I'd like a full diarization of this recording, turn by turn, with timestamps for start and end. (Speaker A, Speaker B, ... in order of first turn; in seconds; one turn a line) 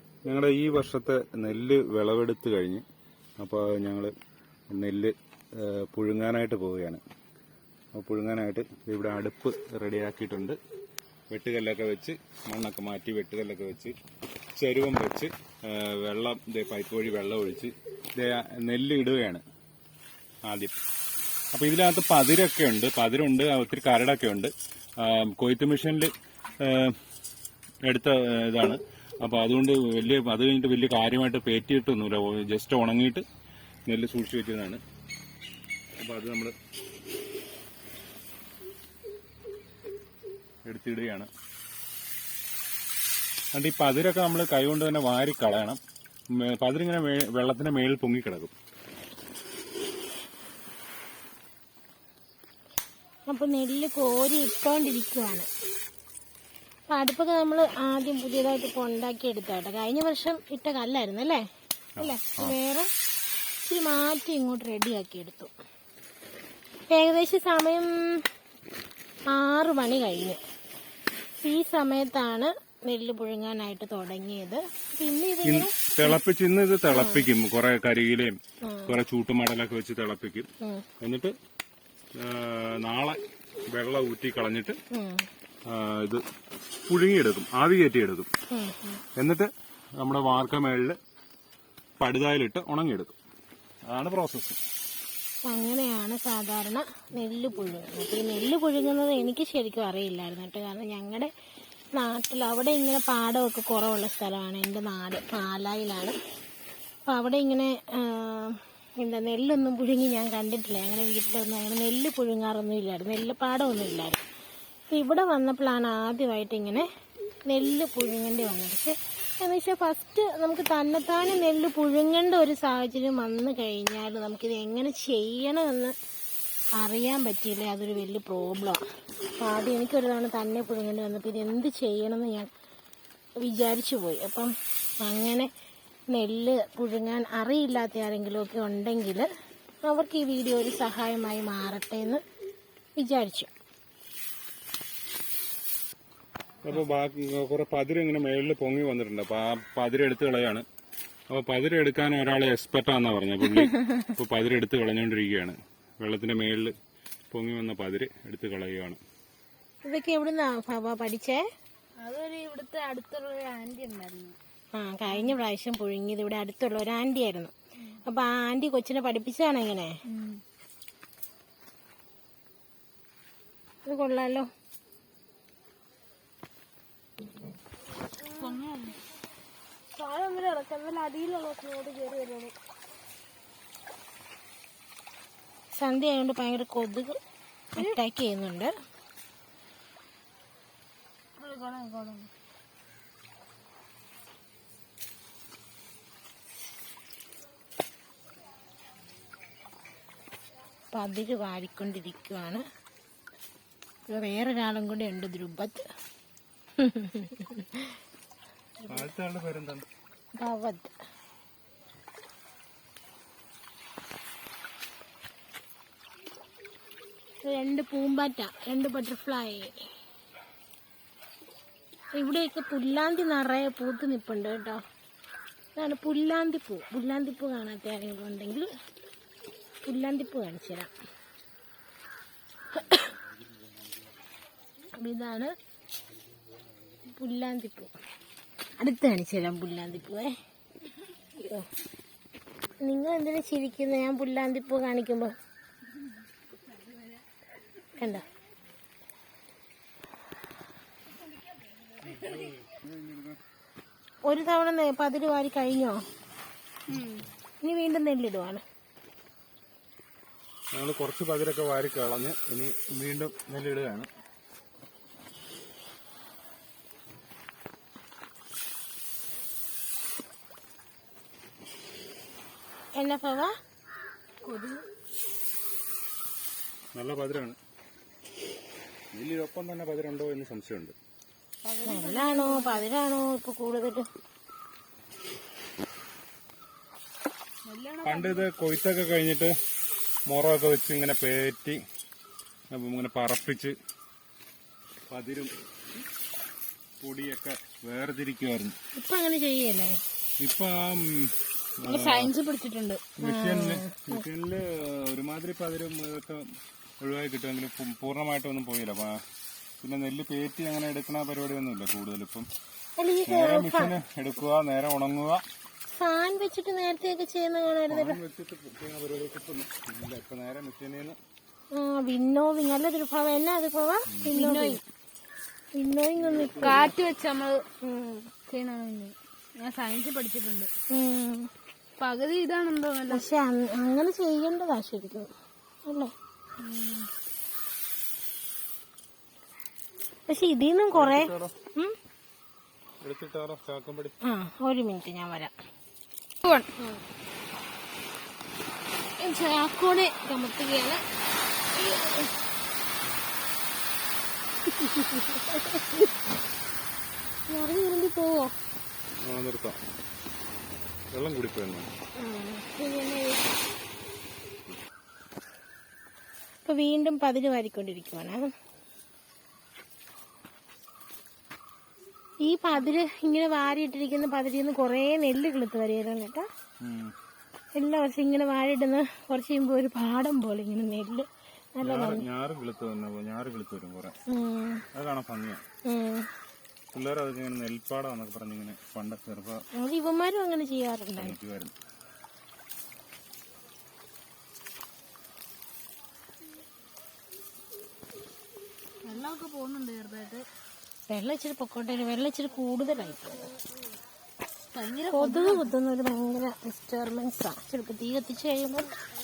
Speaker A: 0.2-2.8
Speaker A: 3.4-4.1
Speaker A: 4.7-7.0
Speaker A: 7.9-10.6
Speaker A: 11.3-13.9
Speaker A: 14.6-19.4
Speaker A: 20.4-20.8
Speaker A: 21.5-27.0
Speaker A: 27.8-33.2
Speaker A: 33.9-34.8
Speaker A: 36.0-36.5
Speaker A: 40.6-41.3
Speaker A: 43.5-45.8
Speaker A: 46.3-48.5
Speaker B: 53.3-55.5
Speaker B: 56.9-61.4
Speaker A: 62.0-62.5
Speaker B: 62.0-62.9
Speaker B: 63.6-65.5
Speaker B: 66.9-68.3
Speaker B: 69.3-70.4
Speaker B: 71.4-76.2
Speaker A: 75.4-78.3
Speaker B: 76.9-77.3
Speaker B: 78.6-79.0
Speaker A: 78.9-80.5
Speaker B: 80.6-80.9
Speaker A: 81.0-81.3
Speaker A: 82.2-84.8
Speaker B: 84.9-85.2
Speaker A: 85.7-86.2
Speaker A: 86.9-88.3
Speaker B: 88.5-89.0
Speaker A: 89.2-91.0
Speaker A: 92.0-93.1
Speaker A: 93.9-94.6
Speaker B: 95.4-101.3
Speaker B: 101.9-106.1
Speaker B: 107.1-114.2
Speaker B: 114.9-116.9
Speaker B: 117.5-125.9
Speaker B: 126.8-128.8
Speaker B: 129.4-132.5
Speaker B: 133.4-135.5
Speaker B: 136.1-139.3
Speaker B: 139.8-142.2
Speaker B: 143.0-143.5
Speaker A: 146.6-150.6
Speaker A: 151.3-156.7
Speaker B: 153.4-154.0
Speaker A: 157.3-159.0
Speaker B: 159.8-161.4
Speaker C: 162.0-164.3
Speaker B: 164.7-167.5
Speaker C: 165.1-165.4
Speaker B: 168.0-169.9
Speaker C: 170.1-170.4
Speaker B: 173.8-174.5
Speaker C: 178.2-179.0
Speaker C: 179.9-182.5
Speaker B: 185.7-187.2
Speaker B: 187.7-188.7
Speaker C: 191.4-192.3
Speaker B: 200.9-202.6
Speaker B: 204.1-205.8
Speaker B: 206.8-208.0
Speaker A: 208.9-209.8
Speaker B: 210.3-210.9
Speaker B: 217.4-219.7
Speaker B: 222.1-224.8
Speaker B: 225.8-228.7
Speaker B: 229.8-230.9
Speaker B: 232.7-233.1
Speaker B: 235.0-235.5
Speaker B: 237.1-237.9
Speaker B: 238.8-240.3
Speaker B: 241.3-241.7
Speaker B: 242.8-245.3
Speaker C: 246.5-247.2
Speaker B: 247.9-248.2
Speaker C: 251.9-252.3
Speaker A: 252.1-253.4
Speaker B: 254.2-256.0
Speaker C: 256.9-257.2
Speaker B: 257.6-258.6
Speaker A: 260.7-264.1
Speaker B: 273.0-273.5
Speaker C: 274.4-274.9
Speaker A: 276.9-277.6
Speaker A: 279.1-280.9
Speaker C: 281.6-282.9
Speaker B: 281.9-284.1
Speaker C: 287.6-288.5
Speaker A: 288.0-289.5
Speaker A: 290.3-291.8
Speaker A: 292.7-293.7
Speaker A: 295.1-296.0
Speaker A: 297.0-298.7
Speaker B: 298.9-300.0
Speaker A: 300.4-302.3
Speaker C: 301.8-303.0
Speaker A: 303.2-306.4
Speaker B: 303.2-304.2
Speaker A: 307.0-309.2
Speaker A: 309.8-312.5
Speaker B: 313.0-313.9
Speaker A: 313.2-315.4
Speaker B: 315.9-318.2
Speaker A: 317.9-321.2
Speaker B: 321.7-324.8
Speaker A: 324.1-324.3
Speaker C: 324.3-324.8
Speaker B: 325.8-326.9
Speaker A: 326.2-327.0
Speaker C: 326.6-327.6
Speaker B: 327.8-328.3
Speaker C: 328.5-330.7
Speaker B: 330.9-331.5
Speaker C: 332.0-333.2
Speaker B: 333.1-335.3
Speaker B: 335.9-336.1
Speaker C: 336.6-337.1
Speaker B: 340.3-342.0
Speaker A: 340.9-341.5
Speaker A: 343.0-344.1
Speaker B: 344.2-345.5
Speaker B: 346.8-347.0
Speaker B: 349.2-351.0
Speaker B: 351.7-352.3
Speaker B: 355.0-356.0
Speaker B: 357.5-358.5
Speaker A: 359.2-359.8
Speaker A: 361.1-361.9
Speaker B: 362.2-363.5
Speaker B: 366.6-368.5
Speaker B: 372.4-376.5
Speaker A: 376.8-377.1
Speaker B: 377.7-382.2
Speaker A: 381.8-384.1
Speaker B: 384.3-384.8
Speaker A: 384.9-385.6
Speaker B: 385.9-386.3
Speaker A: 386.9-389.6
Speaker B: 389.8-391.3
Speaker A: 391.2-391.7
Speaker C: 399.0-400.4
Speaker B: 401.1-403.5
Speaker C: 404.7-405.7
Speaker B: 405.1-408.9